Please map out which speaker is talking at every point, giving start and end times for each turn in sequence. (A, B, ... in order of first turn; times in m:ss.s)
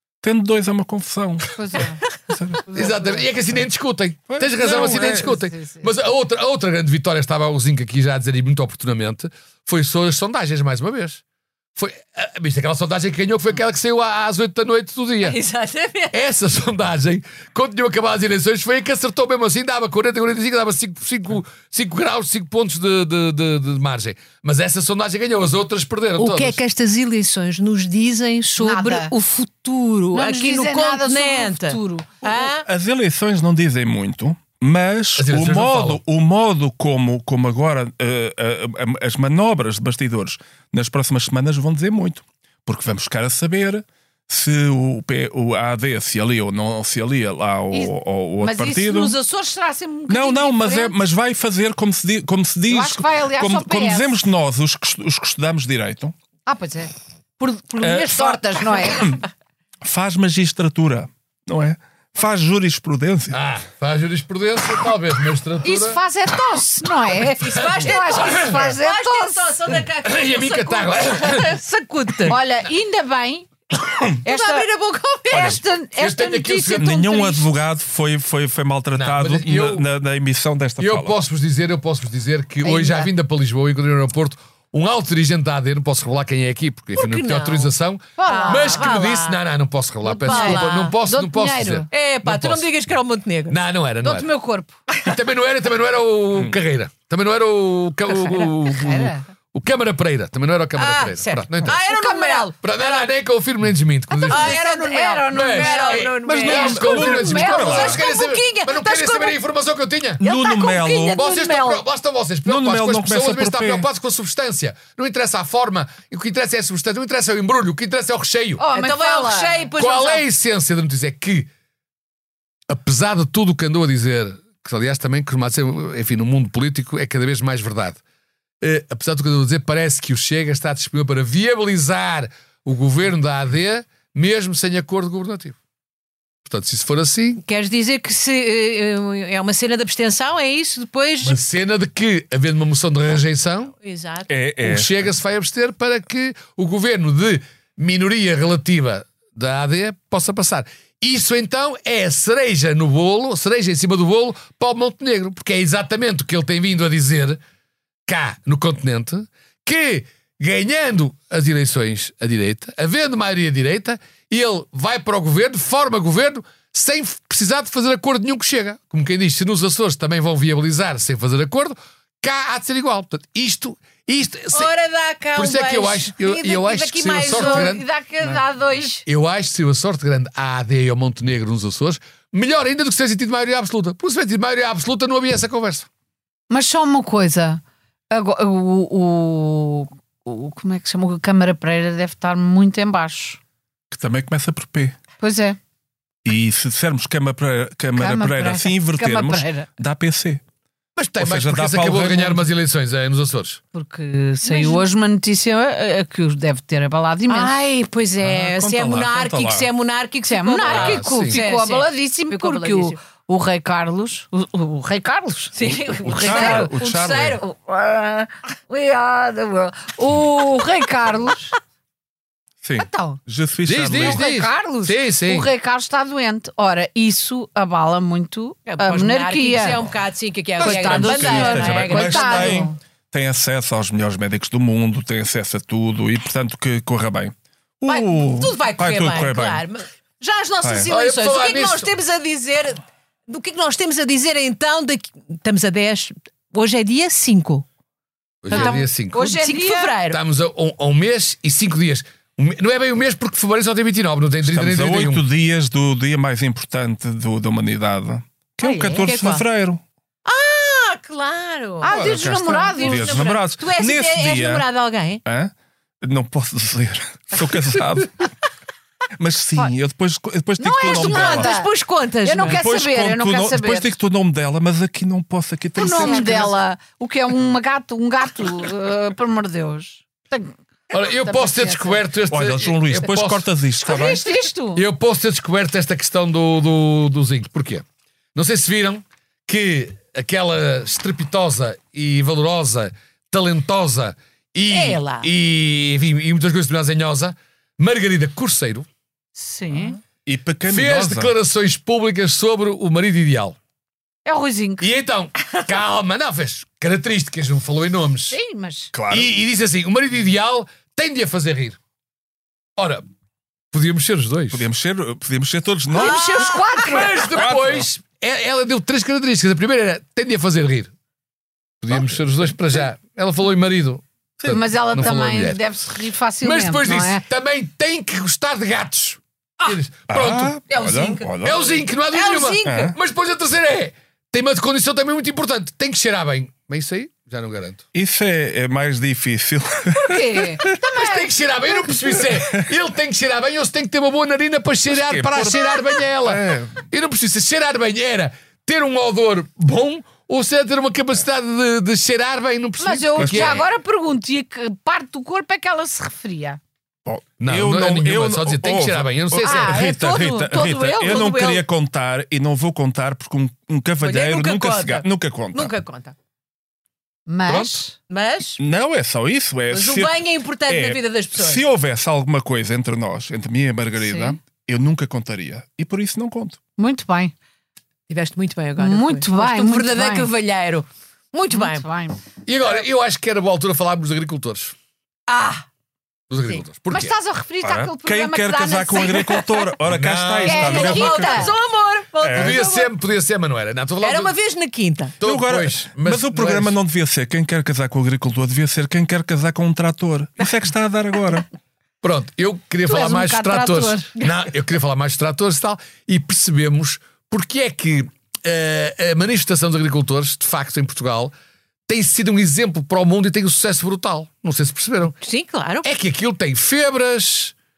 0:00.2-0:03.0 A
0:01.5-0:02.0 B
0:02.7-0:03.3 B
0:02.7-0:11.2 C
0:04.3-0:05.4 A
0:05.3-0:05.9 B
0:11.8-0:15.4 C
0:15.2-0:16.2 D
0:16.1-0:26.6 C
0:26.2-0:32.6 D
0:28.6-0:29.1 B
0:30.1-0:32.1 B
0:32.3-0:49.2 A
0:35.2-0:36.0 C
0:47.7-0:51.0 B
0:50.1-0:56.1 A
0:52.7-0:54.2 B
0:56.5-0:59.2 B
0:57.8-0:59.2 A
0:59.8-1:03.4 A
1:03.3-1:06.0 C
1:05.6-1:09.6 B
1:07.4-1:12.4 D
1:08.2-1:08.5 C
1:10.0-1:11.6 C
1:12.3-1:13.5 B
1:14.2-1:14.7 B
1:14.2-1:15.6 D
1:15.3-1:17.5 B
1:16.0-1:16.9 C
1:16.7-1:21.2 A
1:19.0-1:19.8 C
1:20.8-1:32.7 C
1:22.6-1:23.1 B
1:27.0-1:27.7 D
1:28.2-1:28.9 B
1:28.3-1:29.4 D
1:30.0-1:31.0 D
1:30.2-1:31.9 B
1:31.9-1:33.6 D
1:33.5-1:34.3 C
1:34.0-1:34.8 B
1:35.0-1:41.8 C
1:38.1-1:38.5 D
1:38.6-1:39.3 B
1:40.8-1:43.1 D
1:41.8-1:42.5 B
1:42.6-1:44.6 C
1:44.1-1:47.9 B
1:44.3-1:49.4 D
1:45.3-1:50.2 C
1:46.2-1:48.0 A
1:50.2-1:51.3 A
1:50.2-1:51.7 D
1:50.3-1:51.8 B
1:51.0-1:58.6 C
1:52.4-1:53.9 A
1:58.6-1:59.7 B
1:58.7-2:00.2 D
1:59.8-2:01.5 C
2:02.7-2:08.0 C
2:08.6-2:15.6 C
2:16.4-2:17.4 C
2:17.4-2:21.4 D
2:21.2-2:23.7 C
2:23.8-2:24.3 D
2:24.3-2:25.1 A
2:24.6-2:37.4 C
2:38.1-2:54.7 C
2:54.5-2:57.8 D
2:55.4-2:57.8 C
2:57.3-2:59.0 B
2:59.1-3:05.9 C
3:06.5-3:13.4 B
3:13.9-3:15.0 A
3:15.2-3:15.6 B
3:16.2-3:20.4 A
3:18.0-3:19.7 B
3:21.0-3:23.6 C
3:21.2-3:22.5 A
3:23.7-3:27.6 B
3:24.4-3:24.8 D
3:27.3-3:33.0 D
3:28.2-3:29.7 A
3:30.3-3:36.8 B
3:30.6-3:31.4 C
3:35.5-3:37.4 D
3:35.6-3:37.4 A
3:37.4-3:41.6 B
3:42.6-3:44.2 A
3:42.8-3:43.2 B
3:43.7-3:45.5 C
3:43.9-3:49.8 B
3:48.7-3:52.7 D
3:50.6-3:52.8 B
3:50.6-3:59.6 A
3:57.9-4:07.6 D
4:00.6-4:00.9 A
4:00.9-4:01.9 C
4:08.4-4:09.3 C
4:08.5-4:10.2 D
4:08.5-4:10.0 B
4:10.1-4:15.2 C
4:14.4-4:19.8 A
4:18.6-4:19.0 B
4:18.6-4:19.4 D
4:20.2-4:25.2 D
4:21.8-4:23.3 B
4:21.9-4:24.7 A
4:25.2-4:28.3 A
4:29.2-4:31.5 A
4:30.6-4:31.7 B
4:30.9-4:32.6 D
4:32.2-4:33.9 B
4:32.4-4:36.5 A
4:35.8-4:40.5 B
4:35.8-4:36.6 D
4:40.9-4:43.5 C
4:41.1-4:42.0 B
4:42.3-4:44.3 A
4:43.8-4:44.8 B
4:44.8-4:58.9 C
4:54.7-4:55.3 D
4:59.4-5:00.0 B
5:00.2-5:01.3 A
5:00.7-5:03.6 C
5:04.2-5:04.9 B
5:04.8-5:08.4 C
5:08.3-5:08.9 B
5:08.9-5:09.3 A
5:09.1-5:11.8 C
5:12.8-5:13.0 C
5:13.7-5:14.6 C
5:14.5-5:16.6 A
5:15.9-5:17.2 B
5:16.0-5:17.2 D
5:16.8-5:20.9 C
5:17.3-5:17.9 A
5:21.8-5:25.6 C
5:24.5-5:27.2 B
5:26.4-5:30.6 C
5:30.1-5:31.7 A
5:30.7-5:32.9 D
5:31.4-5:37.8 C
5:32.6-5:33.0 A
5:37.9-5:40.7 A
5:40.0-5:41.3 B
5:40.9-5:53.6 C
5:42.3-5:42.6 A
5:44.9-5:46.9 A
5:52.8-5:56.6 B
5:53.2-5:53.6 A
5:57.1-6:05.7 A
5:57.4-5:59.8 C
5:59.4-6:01.4 B
5:59.6-6:01.6 D
6:04.0-6:06.2 D
6:07.3-6:08.0 B
6:08.0-6:08.6 D
6:08.6-6:10.2 A
6:09.7-6:11.6 D
6:10.7-6:16.6 A
6:14.0-6:14.4 B
6:16.8-6:17.3 B
6:18.1-6:21.9 D
6:18.8-6:20.3 B
6:21.5-6:22.2 B
6:22.5-6:24.7 C
6:25.3-6:25.6 D
6:26.3-6:27.1 C
6:26.9-6:29.7 B
6:27.6-6:31.4 A
6:29.9-6:31.0 C
6:30.4-6:33.0 D
6:30.4-6:31.5 B
6:32.2-6:32.6 A
6:32.3-6:34.3 C
6:34.0-6:35.2 D
6:35.2-6:36.8 C
6:35.2-6:41.5 A
6:42.0-6:51.3 C
6:42.9-6:44.1 B
6:51.9-6:55.2 C
6:55.2-6:55.9 D
6:55.8-6:57.5 C